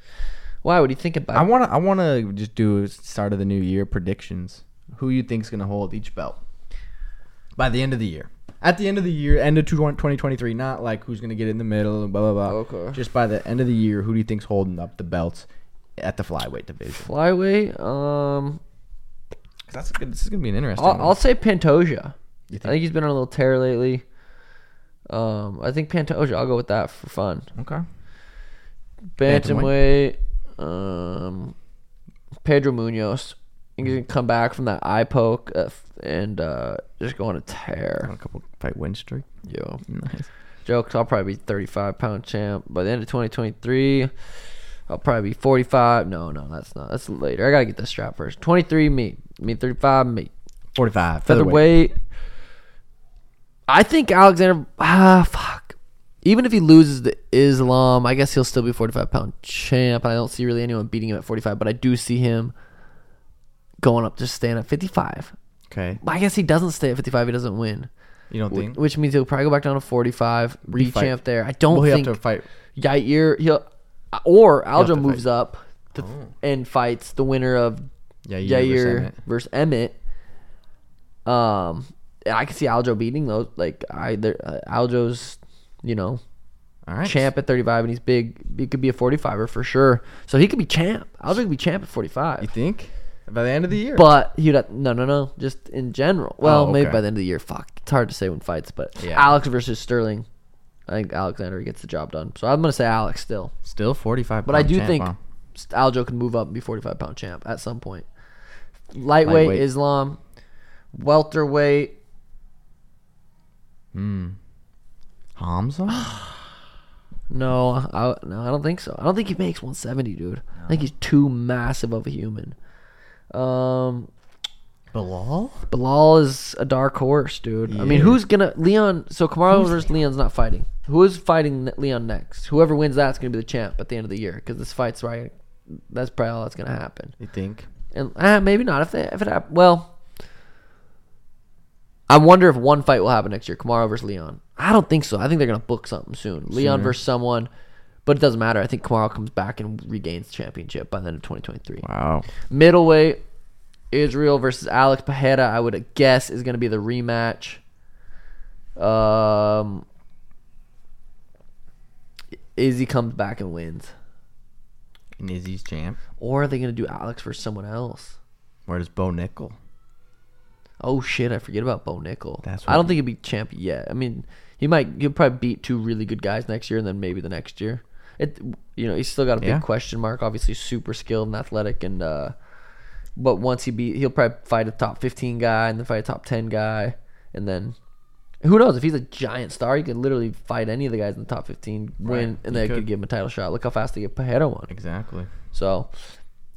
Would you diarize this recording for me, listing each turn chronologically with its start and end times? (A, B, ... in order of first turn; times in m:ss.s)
0:00.6-0:01.5 A
0:01.3-0:06.4 B
0:07.6-0:15.5 B
0:12.5-0:13.0 A
0:16.0-0:17.1 B
0:16.9-0:18.6 A
0:19.7-0:21.2 B
0:20.8-0:24.0 A
0:22.5-0:22.8 B
0:25.1-0:27.5 A
0:27.5-0:27.8 B
0:29.2-0:31.5 A
0:29.2-0:29.7 B
0:32.4-0:38.1 A
0:38.0-0:39.3 B
0:39.4-0:39.8 A
0:39.8-0:40.3 B
0:40.6-0:44.1 A
0:44.9-0:50.3 A
0:50.7-0:51.7 B
0:51.2-0:52.0 A
0:53.7-1:02.5 A
1:03.8-1:05.3 A
1:05.7-1:06.0 B
1:06.0-1:07.9 A
1:08.3-1:08.8 B
1:08.5-1:12.2 A
1:10.7-1:11.2 B
1:11.7-1:12.4 B
1:12.7-1:17.9 A
1:14.7-1:15.2 B
1:15.9-1:16.3 B
1:18.2-1:19.2 B
1:18.4-1:20.0 A
1:21.2-1:26.2 A
1:26.9-1:27.3 B
1:27.0-1:32.5 A
1:32.4-1:34.1 B
1:33.9-1:40.2 A
1:36.4-1:37.0 B
1:39.0-1:39.4 B
1:40.9-1:43.5 A
1:43.6-1:45.2 B
1:44.4-1:48.1 A
1:48.9-1:50.2 A
1:49.2-1:49.6 B
1:50.9-1:52.0 A
1:53.9-1:54.4 B
1:55.4-1:56.3 B
1:55.9-1:56.2 A
1:57.3-2:02.5 A
2:00.6-2:00.9 B
2:03.3-2:04.1 A
2:04.9-2:05.7 B
2:05.7-2:17.2 A
2:07.7-2:08.2 B
2:09.5-2:09.8 B
2:17.2-2:17.7 B
2:17.9-2:19.9 A
2:22.1-2:27.5 A
2:26.5-2:27.0 B
2:28.0-2:31.8 A
2:31.8-2:32.3 B
2:32.4-2:33.2 A
2:33.9-2:37.6 A
2:38.8-2:39.8 A
2:42.5-2:43.9 A
2:45.2-2:46.0 B
2:46.2-2:48.2 A
2:48.7-2:49.6 B
2:50.8-3:02.3 A
2:52.4-2:53.0 B
3:03.2-3:07.8 A
3:08.4-3:14.7 A
3:12.0-3:12.9 B
3:14.7-3:15.3 B
3:15.5-3:15.9 A